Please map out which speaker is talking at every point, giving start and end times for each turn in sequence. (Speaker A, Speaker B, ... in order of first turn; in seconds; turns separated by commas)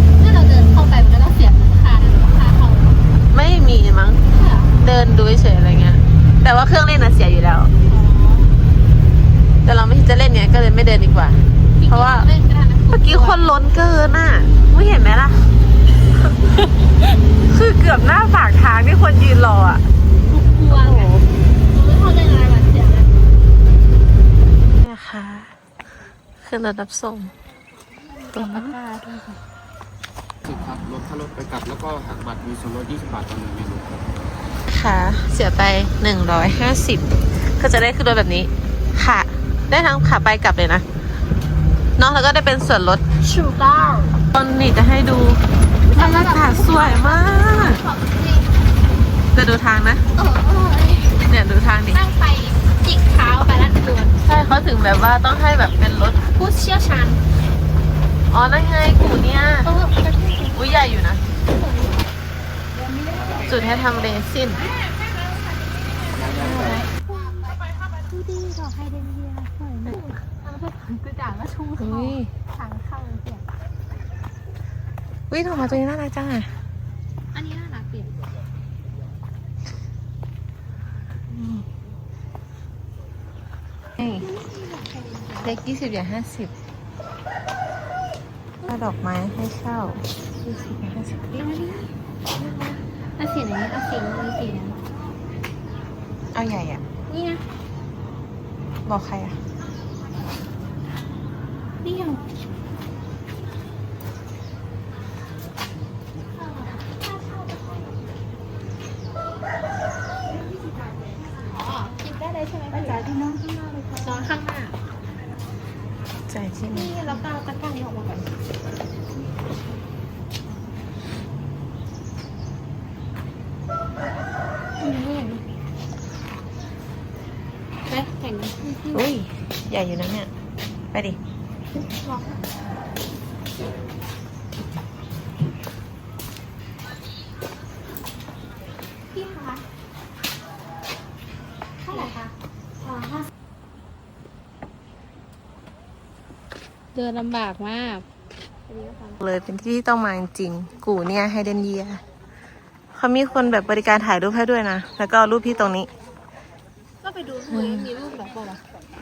Speaker A: 0.2-3.0, Speaker B: 3.3-4.2, Speaker A: 4.3-4.8, Speaker B: 4.8-7.7, Speaker A: 7.9-8.5, Speaker B: 9.6-12.3, Speaker A: 11.8-13.5, Speaker B: 12.9-15.5, Speaker B: 16.2-16.7, Speaker B: 17.4-19.9, Speaker A: 20.3-21.1, Speaker B: 20.7-21.2, Speaker A: 21.7-23.1, Speaker B: 24.8-25.5, Speaker B: 26.4-27.3, Speaker A: 28.0-29.4, Speaker B: 28.3-28.8, Speaker C: 30.4-34.1, Speaker B: 34.7-40.8, Speaker B: 42.0-43.0, Speaker A: 43.2-44.2, Speaker B: 44.3-47.8, Speaker A: 45.9-48.6, Speaker B: 49.3-50.0, Speaker A: 50.1-51.2, Speaker B: 51.2-52.0, Speaker A: 51.9-54.2, Speaker B: 54.2-56.2, Speaker A: 56.3-57.2, Speaker B: 58.3-59.7, Speaker A: 59.6-60.6, Speaker B: 60.5-61.2, Speaker A: 61.5-62.0, Speaker B: 63.5-64.6, Speaker A: 64.6-65.0, Speaker A: 65.7-73.5, Speaker B: 66.3-66.9, Speaker B: 71.8-72.3, Speaker B: 75.3-76.5, Speaker A: 77.3-78.1, Speaker B: 81.3-81.7, Speaker B: 84.0-84.2, Speaker A: 84.2-85.6, Speaker B: 85.4-86.5, Speaker B: 88.6-91.4, Speaker A: 91.3-94.8, Speaker B: 96.3-96.8, Speaker A: 97.1-97.4, Speaker B: 98.8-99.4, Speaker A: 101.8-102.2, Speaker A: 106.3-107.9, Speaker A: 111.4-113.1, Speaker A: 113.9-114.8, Speaker B: 116.3-117.2, Speaker A: 116.7-118.3, Speaker A: 124.8-125.3, Speaker A: 127.9-129.0, Speaker B: 128.9-130.3, Speaker B: 130.9-131.2, Speaker A: 132.0-132.4, Speaker A: 139.1-139.6, Speaker A: 141.8-142.3, Speaker A: 142.8-143.2, Speaker A: 146.9-148.1, Speaker A: 148.7-149.2, Speaker B: 149.2-152.0, Speaker B: 152.9-155.9, Speaker A: 157.0-158.6, Speaker B: 157.5-157.9